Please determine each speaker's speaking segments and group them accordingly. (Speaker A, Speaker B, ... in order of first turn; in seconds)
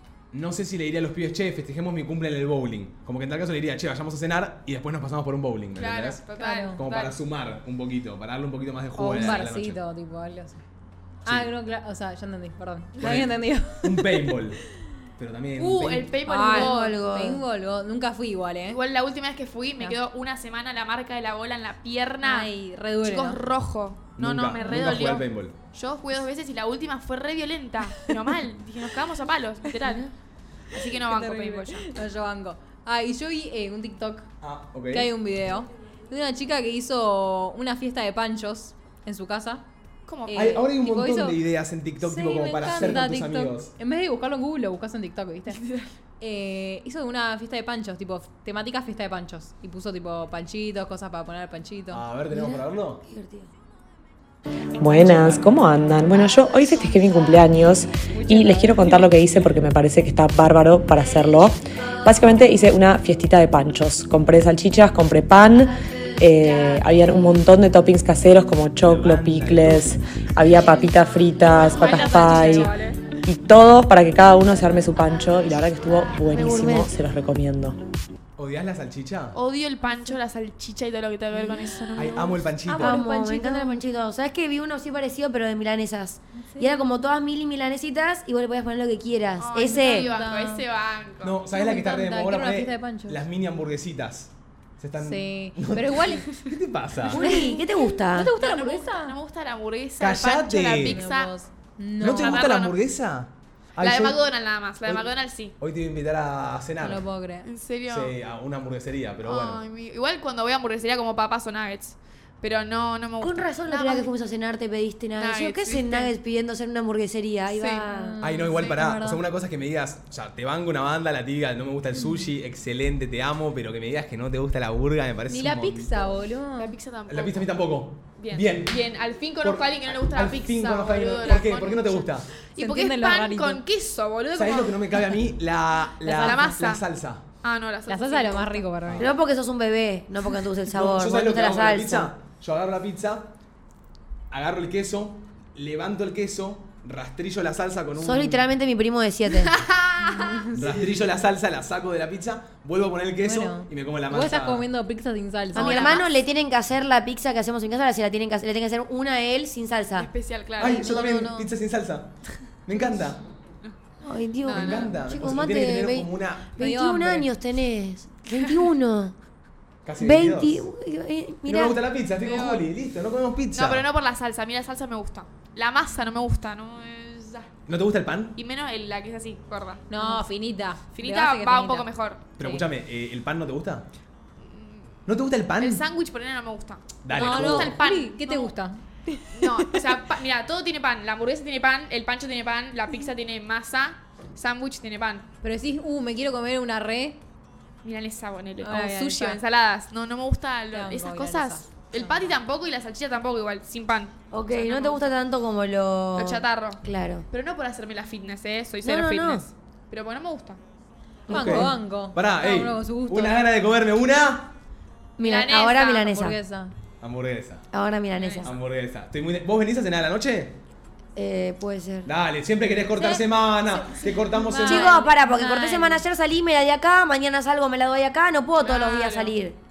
Speaker A: 0.3-6.2, 6.8-9.8, 11.2-11.5, 13.0-14.6, 15.2-16.1, 24.2-25.5, 34.4-35.1, 40.3-43.7, 51.9-53.0, 54.9-55.5, 68.8-70.0, 78.4-79.4, 82.0-83.0, 91.2-97.2, 100.0-101.0, 102.0-104.2, 105.6-107.1, 107.9-109.6, 118.2-126.0, 127.1-128.8, 129.4-132.3, 134.3-137.2, 140.7-143.3, 144.3-148.4, 150.5-154.7, 160.6-162.1, 162.6-163.2, 164.5-166.6, 169.8-170.7, 171.4-173.9, 177.7-178.4, 182.4-183.8, 185.1-185.8, 187.0-187.8, 211.3-214.5, 217.0-217.6, 218.4-220.6, 222.1-225.0
Speaker B: 5.8-7.2, 15.6-17.0, 18.7-22.5, 23.0-30.1, 30.7-31.9, 40.0-40.6, 45.5-45.9, 71.5-73.0, 79.3-82.5, 89.4-91.4, 98.3-101.3, 102.0-102.8, 103.8-105.5, 107.4-108.2, 109.2-114.1, 115.2-116.1, 117.5-117.8, 126.6-127.5, 128.2-134.9, 136.1-136.8, 137.4-138.7, 149.4-150.4, 155.5-156.1, 160.0-161.2, 164.4-164.9, 172.2-172.7, 173.5-177.5, 178.3-180.2, 180.9-182.3, 184.4-185.0, 185.6-188.5, 189.3-195.3, 197.8-205.1, 206.2-210.6, 215.2-216.1, 218.2-218.5, 228.6-229.3
Speaker C: 6.4-6.8, 9.0-10.6, 11.2-14.4, 16.2-18.8, 22.2-23.4, 30.9-34.3, 34.9-39.6, 40.3-41.4, 42.0-45.6, 46.2-52.0, 58.1-59.5, 82.7-83.8, 86.4-86.8, 89.6-90.6, 91.5-93.2, 95.0-96.5, 97.1-99.2, 100.8-102.5, 106.8-107.5, 117.9-119.2, 125.3-126.8, 132.6-133.6, 136.0-136.6, 137.9-139.1, 150.0-150.8, 153.2-156.0, 160.6-161.5, 166.6-167.3, 179.9-181.9, 182.4-182.7, 187.1-189.9, 195.4-197.2, 198.6-199.4, 200.7-202.3, 211.3-213.4, 216.1-216.7, 222.9-226.0
Speaker D: 16.5-17.4, 52.3-53.5, 76.3-76.9, 82.8-90.2, 97.2-98.3, 113.2-118.2, 139.0-142.1, 148.0-149.6, 155.5-160.1, 164.0-169.1, 170.0-171.8, 204.3-207.2, 208.8-209.4, 211.3-211.7, 215.2-216.4, 217.7-218.5, 221.1-222.1, 224.6-229.6
Speaker E: 54.8-77.8